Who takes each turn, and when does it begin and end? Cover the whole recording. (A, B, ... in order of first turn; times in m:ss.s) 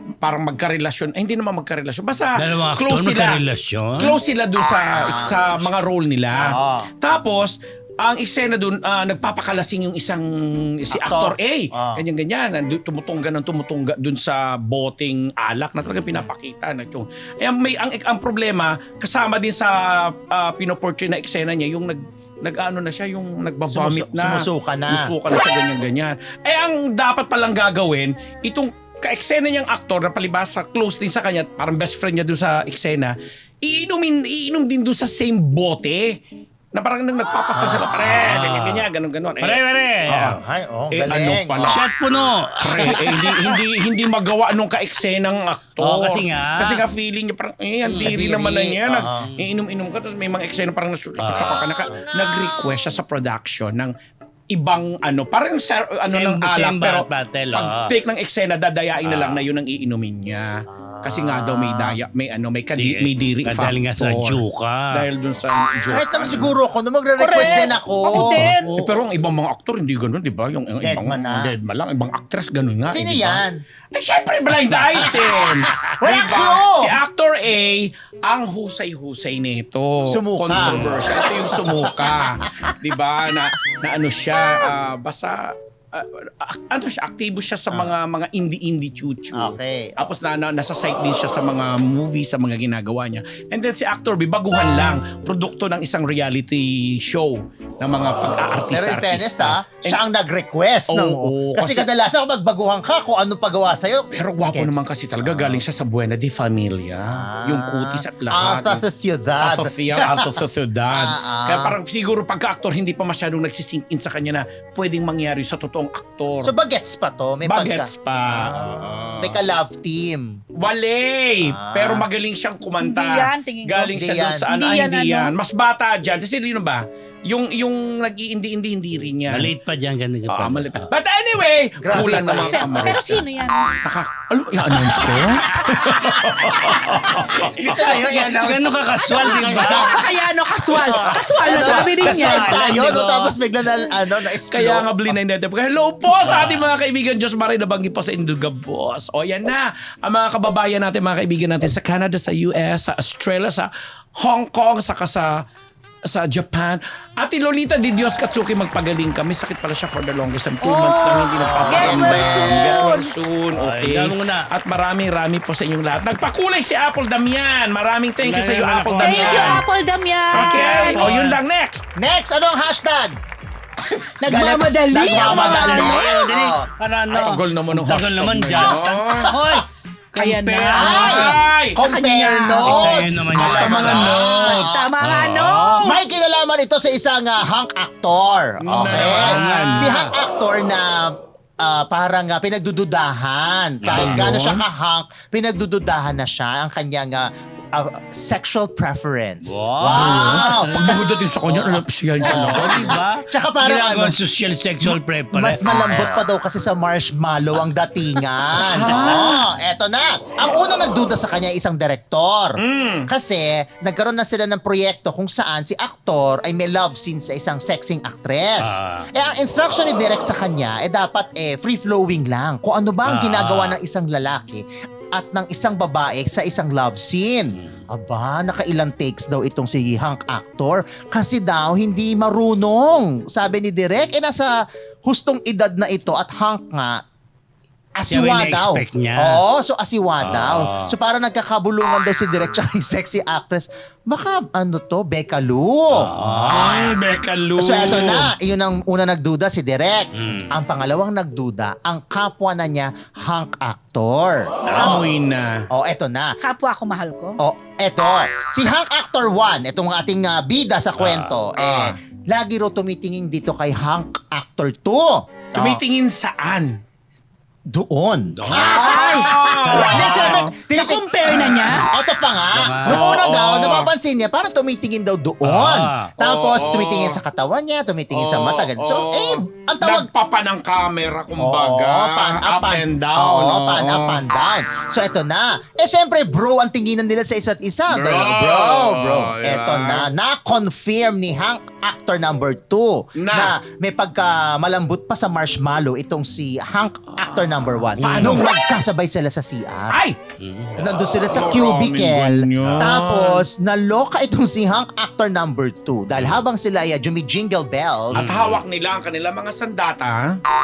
0:00.2-0:03.4 A
0:02.4-0:04.2 B
0:04.0-0:36.2 A
0:05.0-0:05.6 C
0:06.4-0:06.9 C
0:10.9-0:12.0 C
0:23.7-0:25.1 C
0:36.7-0:40.4 A
0:37.5-0:38.0 C
0:38.0-0:38.9 B
0:39.4-0:40.4 B
0:40.4-0:41.8 C
0:40.9-0:41.8 A
0:41.6-0:43.4 B
0:42.6-0:53.9 A
0:45.8-0:46.8 B
0:47.8-0:48.2 B
0:48.0-0:49.3 C
0:49.2-0:49.5 B
0:51.2-0:51.8 B
0:54.5-1:00.5 A
0:56.1-0:57.9 B
0:59.0-0:59.4 B
1:00.7-1:02.0 C
1:01.0-1:06.6 A
1:02.8-1:05.0 B
1:05.9-1:08.5 C
1:07.2-1:08.7 D
1:08.1-1:09.0 B
1:08.8-1:13.4 A
1:10.8-1:11.5 C
1:12.9-1:13.6 C
1:13.9-1:40.0 A
1:14.8-1:17.0 C
1:20.1-1:22.8 C
1:29.3-1:30.1 C
1:38.7-1:45.6 C
1:40.9-1:41.9 A
1:44.1-1:48.8 A
1:47.1-1:50.4 C
1:49.4-1:56.5 A
1:50.9-1:51.8 C
1:56.4-2:00.4 C
1:57.4-1:59.4 A
2:00.6-2:09.5 A
2:01.4-2:02.0 C
2:02.8-2:03.9 D
2:03.9-2:04.5 C
2:04.5-2:05.3 D
2:09.3-2:10.9 B
2:10.3-2:13.2 A
2:11.8-2:13.0 C
2:12.3-2:13.7 D
2:13.8-2:18.1 A
2:16.9-2:19.6 C
2:18.1-2:19.9 B
2:19.0-2:19.9 A
2:19.0-2:22.7 D
2:20.9-2:23.4 B
2:20.9-2:24.9 C
2:24.5-2:35.3 A
2:26.2-2:26.7 B
2:36.1-2:49.6 A
2:40.6-2:43.1 D
2:41.4-2:42.8 C
2:43.5-2:44.5 B
2:48.2-2:49.6 B
2:49.0-2:51.2 D
2:50.3-2:51.4 B
2:50.3-2:51.8 A
2:52.0-2:53.2 C
2:54.2-2:56.3 D
2:54.2-2:56.7 C
2:55.0-3:01.4 B
2:57.1-2:59.4 A
3:00.2-3:01.2 D
3:00.8-3:01.8 A
3:00.8-3:04.9 C
3:01.8-3:02.8 D
3:02.5-3:04.3 B
3:02.9-3:04.9 A
3:04.4-3:06.1 D
3:05.0-3:06.0 B
3:05.8-3:21.0 C
3:08.6-3:10.0 A
3:08.8-3:10.1 B
3:13.8-3:14.3 B
3:13.9-3:14.6 A
3:19.4-3:26.2 B
3:19.9-3:23.0 A
3:22.2-3:24.2 C
3:24.8-3:54.5 C
3:28.6-3:29.4 A
3:32.6-3:33.1 A
3:38.6-3:39.1 B
3:43.0-3:43.8 B
3:47.5-3:47.8 B
3:55.0-3:57.0 C
3:58.0-4:06.9 C
3:58.1-3:59.4 B
4:00.2-4:00.9 B
4:06.0-4:06.7 B
4:06.5-4:08.3 A
4:07.6-4:15.1 C
4:10.2-4:10.5 B
4:14.7-4:14.9 B
4:14.7-4:15.5 A
4:15.7-4:16.4 C
4:16.4-4:17.4 D
4:17.4-4:25.8 C
4:21.0-4:21.4 B
4:21.6-4:22.0 A
4:25.6-4:26.8 A
4:27.7-4:40.1 C
4:28.4-4:29.0 B
4:28.5-4:29.5 D
4:28.6-4:30.5 A
4:29.6-4:30.4 B
4:30.7-4:31.9 D
4:31.2-4:31.7 A
4:32.6-4:33.1 B
4:32.8-4:33.9 A
4:35.4-4:36.1 B
4:36.2-4:37.2 A
4:38.1-4:44.2 A
4:41.4-5:00.0 C
4:47.9-4:50.1 A
4:53.2-4:53.6 A
4:57.2-4:58.5 A
4:59.9-5:00.2 A
5:00.4-5:00.9 B
5:00.8-5:08.3 C
5:01.0-5:03.4 A
5:02.6-5:02.9 B
5:08.1-5:10.4 A
5:08.1-5:08.6 B